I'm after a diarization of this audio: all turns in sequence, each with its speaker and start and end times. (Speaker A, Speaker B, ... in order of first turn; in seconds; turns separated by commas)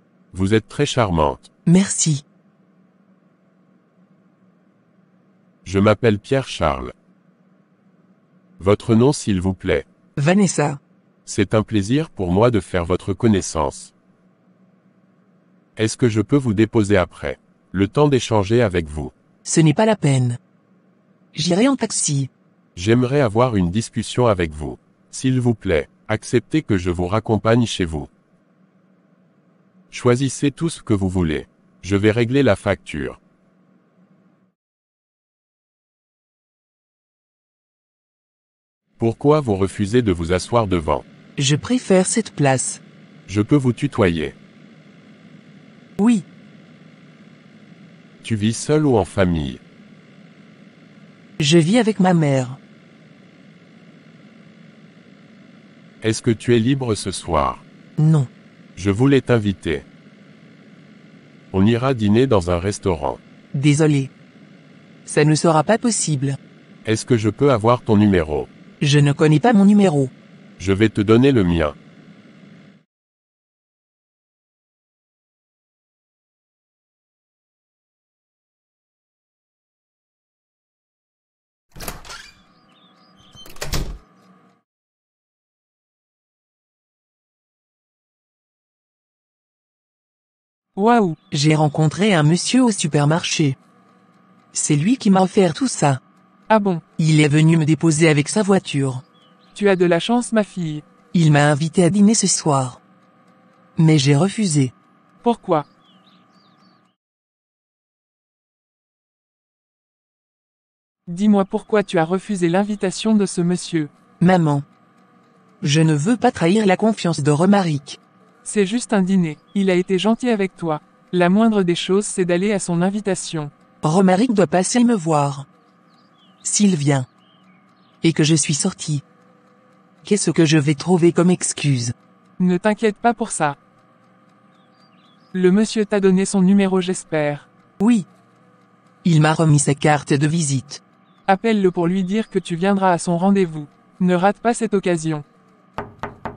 Speaker A: 0.3-1.4, Speaker B: 1.7-2.2, Speaker A: 5.7-6.9, Speaker A: 8.6-9.8, Speaker B: 10.2-10.8, Speaker A: 11.3-13.9, Speaker A: 15.8-19.1, Speaker B: 19.5-20.4, Speaker B: 21.3-22.3, Speaker A: 22.8-28.1, Speaker A: 29.9-33.2, Speaker A: 39.0-41.0, Speaker B: 41.4-42.8, Speaker A: 43.3-44.4, Speaker B: 46.0-46.2, Speaker A: 48.2-49.6, Speaker B: 51.4-52.6, Speaker A: 56.0-57.6, Speaker B: 58.0-58.3, Speaker A: 58.8-59.9, Speaker A: 61.5-63.2, Speaker B: 63.5-64.1, Speaker B: 65.1-66.4, Speaker A: 66.8-68.5, Speaker B: 68.8-70.1, Speaker A: 70.6-71.8, Speaker C: 90.8-91.2, Speaker B: 91.3-93.6, Speaker B: 94.5-96.0, Speaker C: 96.5-96.8, Speaker B: 97.0-99.0, Speaker C: 99.5-100.8, Speaker B: 101.1-102.8, Speaker B: 103.8-104.7, Speaker C: 105.2-105.7, Speaker C: 111.1-113.9, Speaker B: 114.2-114.7, Speaker B: 115.6-118.0, Speaker C: 118.5-123.5, Speaker B: 123.8-125.5, Speaker B: 126.4-127.1, Speaker B: 128.0-129.0, Speaker B: 130.0-131.9, Speaker C: 132.4-133.6, Speaker C: 135.3-137.5, Speaker B: 137.8-138.1, Speaker B: 139.0-140.8, Speaker C: 141.3-145.2